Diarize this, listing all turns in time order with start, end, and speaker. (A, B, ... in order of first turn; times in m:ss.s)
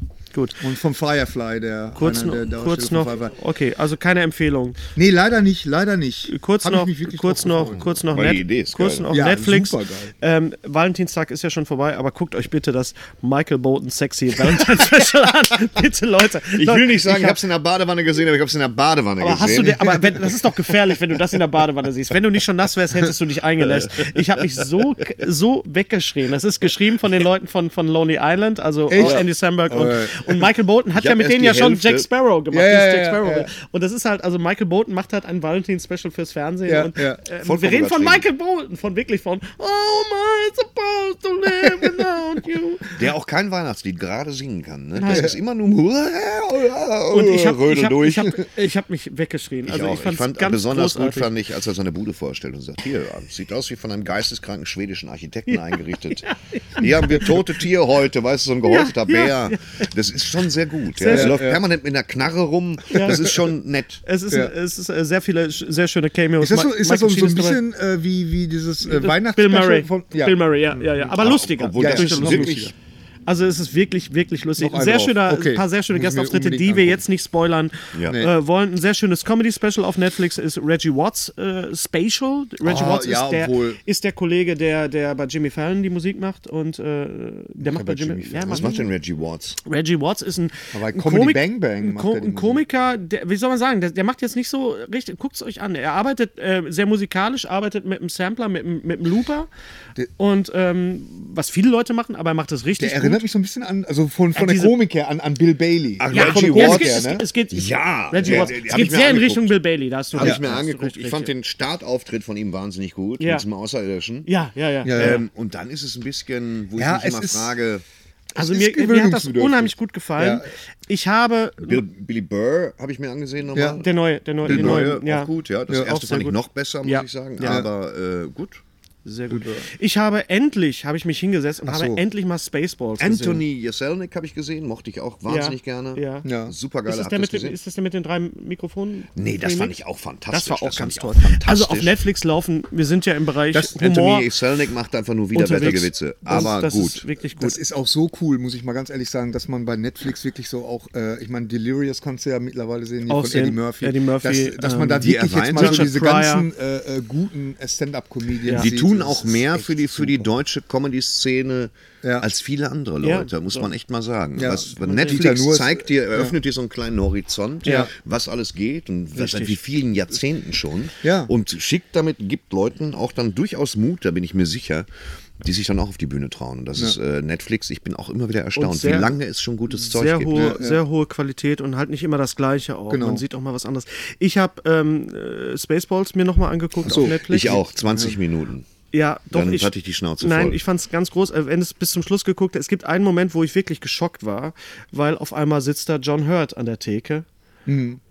0:00.3-0:00.6 A
0:00.6-0:03.3 B
0:02.0-0:04.8 A
0:05.0-0:07.9 B
0:06.3-0:17.4 A
0:08.0-0:09.1 C
0:09.1-0:10.1 B
0:16.6-0:20.1 C
0:19.2-0:43.1 A
0:28.9-0:30.4 B
0:29.0-0:29.2 C
0:31.0-0:32.1 C
0:32.5-0:33.5 B
0:36.7-0:37.2 B
0:37.4-0:38.2 C
0:43.0-0:48.5 C
0:45.0-0:45.3 A
0:45.1-0:45.4 B
0:47.1-0:51.3 A
0:49.7-1:04.0 C
0:55.5-0:57.4 A
0:58.6-0:59.9 A
1:01.0-1:01.4 A
1:01.1-1:01.6 B
1:02.9-1:03.3 A
1:04.0-1:07.6 A
1:06.4-1:11.1 B
1:08.8-1:12.7 A
1:11.2-1:12.7 C
1:11.8-1:12.7 B
1:13.3-1:28.9 A
1:14.6-1:17.0 B
1:17.9-1:18.2 C
1:22.6-1:23.8 B
1:27.8-1:28.7 B
1:28.2-1:29.6 C
1:29.6-1:39.5 A
1:30.7-1:32.6 B
1:40.2-1:43.3 A
1:42.8-1:47.3 B
1:44.4-1:44.8 A
1:46.0-1:49.6 C
1:46.1-1:51.3 A
1:48.2-1:48.5 B
1:50.1-1:54.3 C
1:50.2-1:50.4 B
1:53.2-1:53.4 A
1:54.3-1:55.2 A
1:54.8-1:55.2 B
1:54.9-1:57.8 C
1:56.8-1:57.6 B
1:58.4-2:00.5 B
1:58.4-2:01.8 A
2:01.6-2:08.6 C
2:03.5-2:03.8 B
2:03.8-2:07.6 A
2:04.4-2:04.9 B
2:07.4-2:07.7 B
2:09.0-2:13.4 A
2:09.3-2:09.7 B
2:11.7-2:12.0 B
2:13.0-2:17.6 C
2:15.3-2:16.3 A
2:16.2-2:16.5 B
2:16.9-2:19.8 A
2:19.2-2:22.0 C
2:20.3-2:24.3 A
2:23.8-2:27.0 C
2:25.3-2:27.6 A
2:27.4-2:40.3 B
2:33.1-2:36.5 A
2:35.0-2:35.9 C
2:38.5-2:54.9 C
2:43.0-2:43.7 A
2:44.4-2:46.4 B
2:44.8-2:45.2 A
2:47.6-2:47.9 B
2:49.2-2:49.5 A
2:51.0-2:51.3 B
2:55.4-3:00.6 C
2:58.6-2:59.1 A
2:59.7-3:07.7 A
3:00.3-3:00.8 B
3:02.9-3:03.2 B
3:06.8-3:07.2 B
3:06.9-3:08.7 C
3:07.9-3:08.2 B
3:08.9-3:17.3 A
3:09.3-3:10.6 C
3:17.7-3:18.0 B